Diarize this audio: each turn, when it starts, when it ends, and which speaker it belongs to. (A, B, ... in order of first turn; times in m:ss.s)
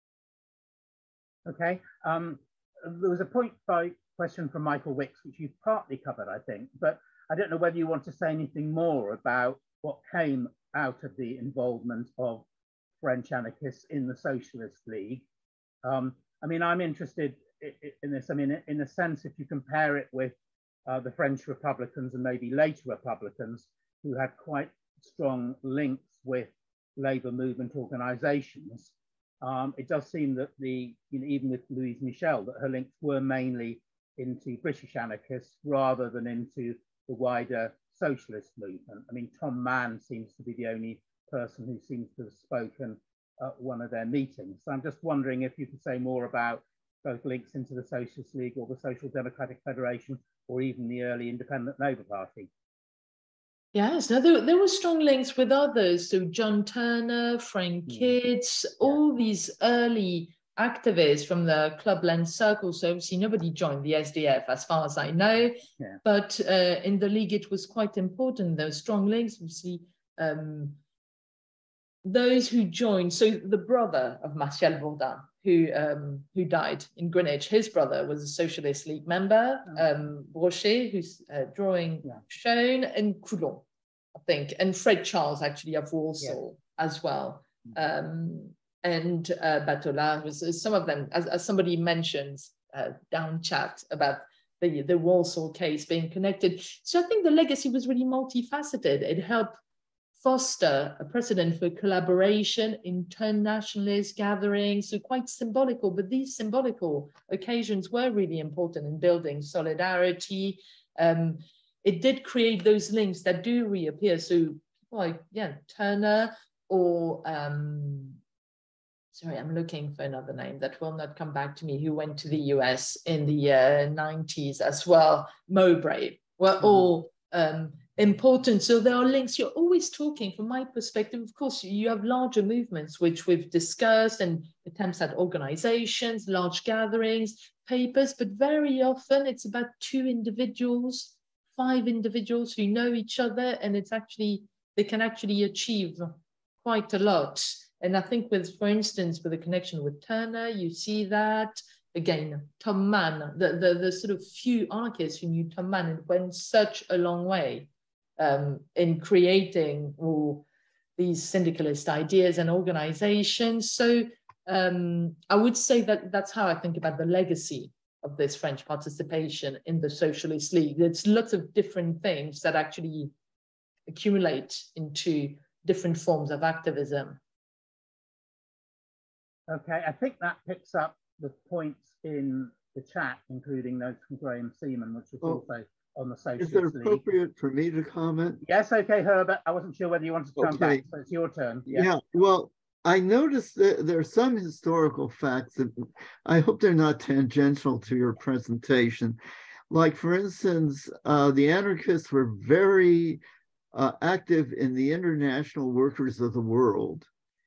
0:01.5-0:12.4 A
0:13.0-0:15.2 A
0:15.8-0:20.4 A
0:20.9-0:52.5 A
0:53.7-1:10.8 B
0:57.9-0:58.1 A
1:12.0-1:23.6 B
1:24.2-1:39.6 B
1:40.2-1:58.2 B
1:59.1-2:26.1 B
2:26.6-2:40.4 B
2:41.0-2:53.1 B
2:53.9-2:57.2 B
2:59.5-3:07.0 A
3:06.4-3:08.4 C
3:08.4-3:11.9 A
3:10.4-3:10.9 C
3:11.7-3:19.2 C
3:19.7-3:23.2 C
3:23.7-3:27.1 C